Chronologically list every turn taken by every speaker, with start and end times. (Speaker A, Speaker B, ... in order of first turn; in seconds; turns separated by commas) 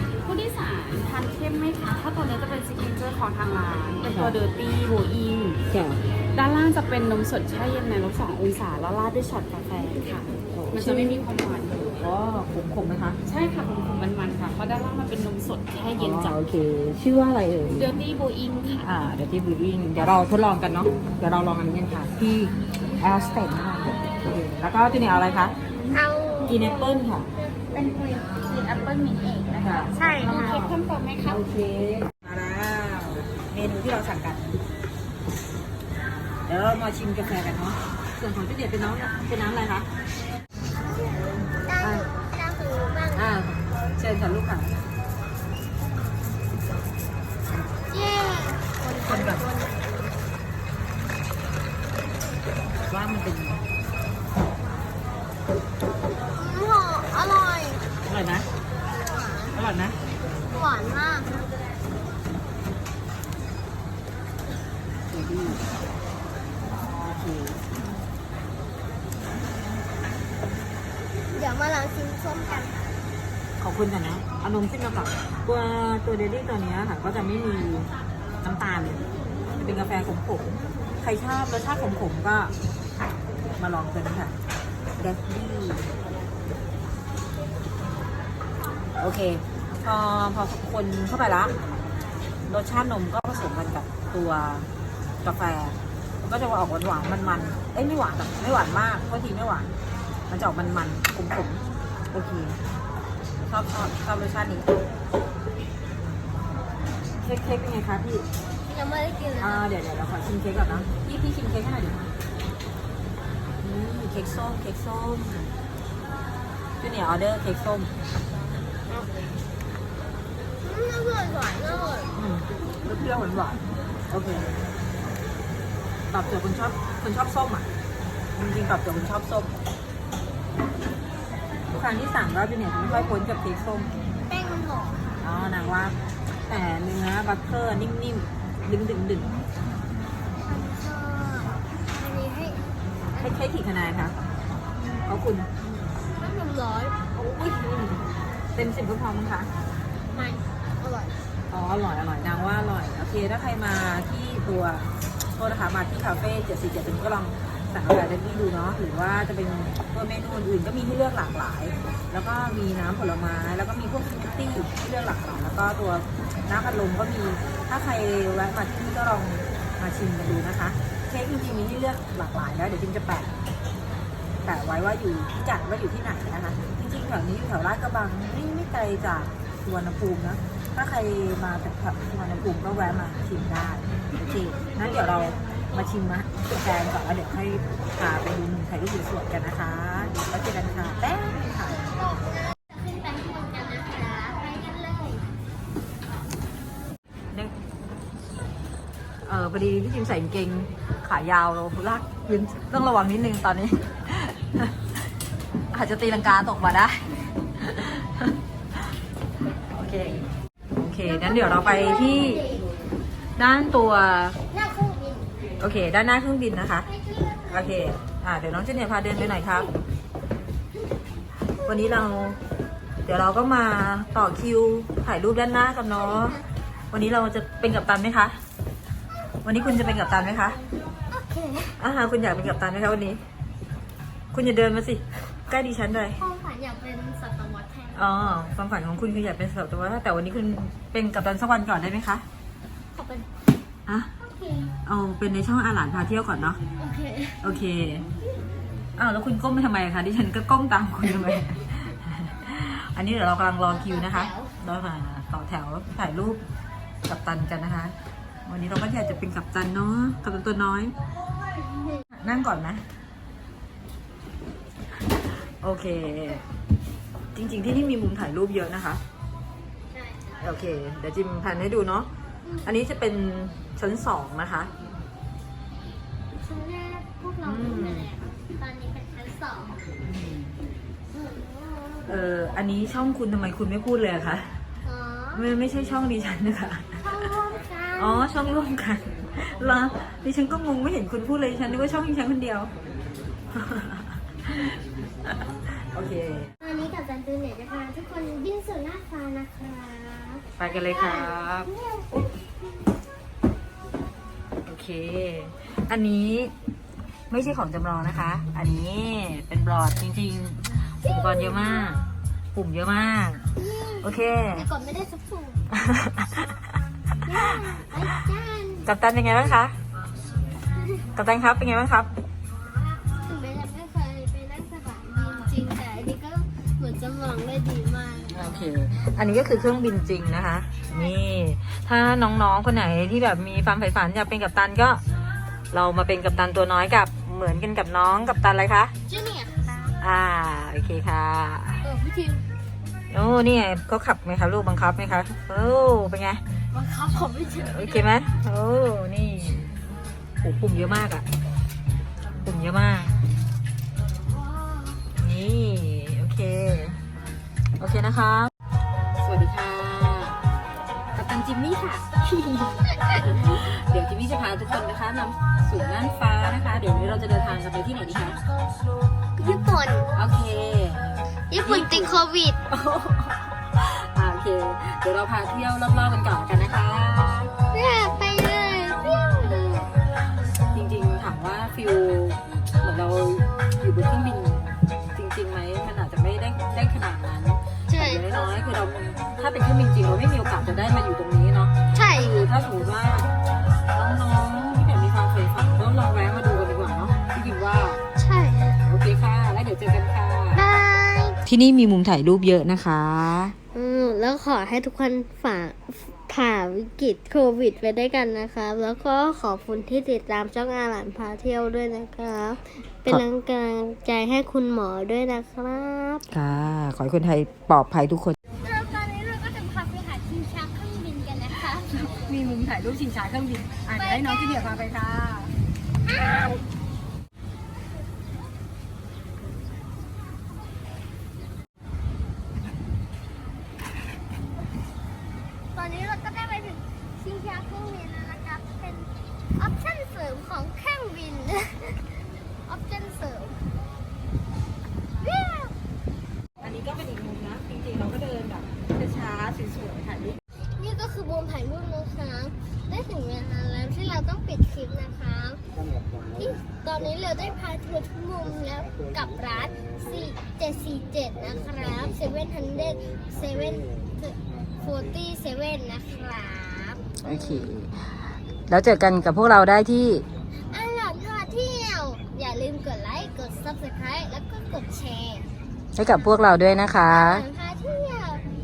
Speaker A: 0.2-5.6, Speaker B: 4.0-4.4, Speaker B: 5.7-6.0, Speaker A: 6.3-12.0, Speaker B: 10.5-11.2, Speaker B: 11.9-13.2, Speaker A: 13.2-16.4, Speaker B: 16.0-18.0, Speaker A: 17.7-18.9, Speaker B: 18.8-25.5, Speaker C: 25.9-26.7, Speaker B: 26.4-27.3, Speaker A: 27.7-31.4, Speaker B: 29.5-34.6, Speaker C: 29.9-30.6, Speaker B: 36.5-39.9, Speaker C: 40.8-43.3, Speaker B: 41.8-42.1, Speaker B: 43.1-44.7, Speaker C: 47.9-50.2, Speaker B: 49.0-49.4, Speaker B: 52.9-53.6, Speaker C: 56.4-57.9, Speaker B: 58.0-58.5, Speaker C: 59.0-59.6, Speaker B: 59.5-60.0, Speaker C: 60.5-61.3, Speaker B: 65.1-65.6, Speaker B: 66.8-67.6, Speaker C: 71.3-72.8, Speaker B: 73.6-77.9, Speaker B: 78.4-79.0, Speaker B: 79.5-82.5, Speaker B: 83.6-84.3, Speaker B: 85.0-85.9, Speaker B: 89.0-91.6, Speaker B: 92.5-94.7, Speaker B: 95.2-99.7, Speaker B: 100.3-102.6, Speaker B: 103.5-104.8, Speaker B: 107.2-108.3, Speaker C: 108.7-109.7, Speaker B: 109.4-112.1, Speaker B: 113.6-115.5, Speaker B: 116.8-117.9, Speaker C: 120.6-122.1, Speaker B: 122.1-124.6, Speaker B: 126.1-127.7, Speaker B: 128.3-129.5, Speaker B: 131.7-133.9, Speaker C: 134.3-135.2, Speaker B: 135.2-135.9, Speaker B: 136.5-139.4, Speaker C: 140.4-143.2, Speaker B: 143.1-144.2, Speaker C: 144.8-145.1, Speaker B: 145.1-145.5, Speaker C: 146.1-146.9, Speaker B: 147.1-149.5, Speaker C: 150.1-151.2, Speaker B: 151.5-173.3, Speaker B: 174.4-191.8, Speaker C: 191.6-195.3, Speaker B: 199.2-204.7, Speaker B: 205.7-208.3, Speaker B: 209.7-212.6, Speaker C: 211.0-212.7, Speaker B: 213.3-214.4, Speaker C: 214.5-215.3, Speaker B: 215.6-216.9, Speaker C: 216.8-217.9, Speaker B: 217.5-219.7, Speaker C: 221.6-222.0, Speaker B: 221.6-222.4, Speaker B: 223.0-228.4, Speaker C: 225.9-226.4, Speaker B: 229.4-230.6, Speaker C: 231.1-231.8, Speaker B: 231.8-233.2, Speaker B: 234.3-236.2, Speaker C: 236.2-238.4, Speaker B: 237.9-242.2, Speaker C: 242.9-243.3, Speaker B: 243.9-244.1, Speaker C: 244.2-244.7, Speaker B: 244.8-246.6, Speaker C: 246.8-247.4, Speaker B: 247.4-248.1, Speaker B: 248.9-256.4, Speaker C: 253.7-254.5, Speaker B: 257.1-260.9, Speaker C: 261.7-262.0, Speaker B: 262.1-262.8, Speaker B: 265.6-266.4, Speaker B: 267.3-269.0, Speaker C: 269.9-270.6, Speaker B: 270.4-272.1, Speaker C: 272.4-272.7, Speaker B: 272.6-274.7, Speaker C: 276.4-279.8, Speaker B: 277.4-278.1, Speaker B: 280.0-280.6, Speaker C: 281.1-282.2, Speaker B: 282.1-284.6, Speaker C: 284.8-285.5, Speaker B: 285.3-287.0, Speaker C: 287.0-288.3, Speaker B: 288.0-292.7, Speaker B: 293.5-296.5, Speaker C: 296.6-302.5, Speaker B: 300.6-301.7, Speaker B: 304.6-306.5, Speaker B: 307.3-312.0, Speaker C: 311.0-312.0, Speaker B: 312.5-313.5, Speaker C: 313.6-315.7, Speaker B: 314.0-314.7, Speaker B: 315.7-316.6, Speaker C: 317.2-318.9, Speaker B: 318.8-319.7, Speaker B: 321.1-322.1, Speaker C: 322.7-328.4, Speaker B: 328.3-335.0, Speaker B: 335.7-338.9, Speaker C: 339.1-339.9, Speaker B: 340.0-341.8, Speaker C: 341.8-342.4, Speaker B: 343.1-346.4, Speaker C: 346.7-348.1, Speaker B: 347.6-349.7, Speaker B: 350.4-351.2, Speaker B: 352.4-353.1, Speaker C: 354.5-355.0, Speaker B: 355.2-357.0, Speaker B: 357.8-358.5, Speaker B: 359.2-360.4, Speaker B: 361.1-368.4, Speaker C: 369.4-370.1, Speaker B: 370.1-371.1, Speaker C: 371.5-372.6, Speaker B: 371.6-377.5, Speaker C: 377.7-380.0, Speaker B: 380.7-393.3, Speaker C: 387.9-388.2, Speaker C: 391.9-392.5, Speaker B: 393.9-398.0, Speaker C: 398.1-398.8, Speaker B: 398.8-400.7, Speaker C: 400.5-401.4, Speaker B: 401.4-403.5, Speaker C: 403.7-416.3, Speaker B: 416.3-418.4, Speaker C: 418.6-422.1, Speaker B: 422.0-425.5, Speaker C: 423.9-424.8, Speaker C: 426.0-426.6, Speaker C: 435.7-443.7, Speaker C: 445.2-445.7, Speaker B: 446.6-450.4, Speaker C: 450.8-455.6, Speaker C: 456.3-467.7, Speaker B: 467.2-468.0, Speaker B: 468.7-470.2, Speaker C: 470.5-475.5, Speaker B: 475.9-477.4, Speaker C: 477.0-478.4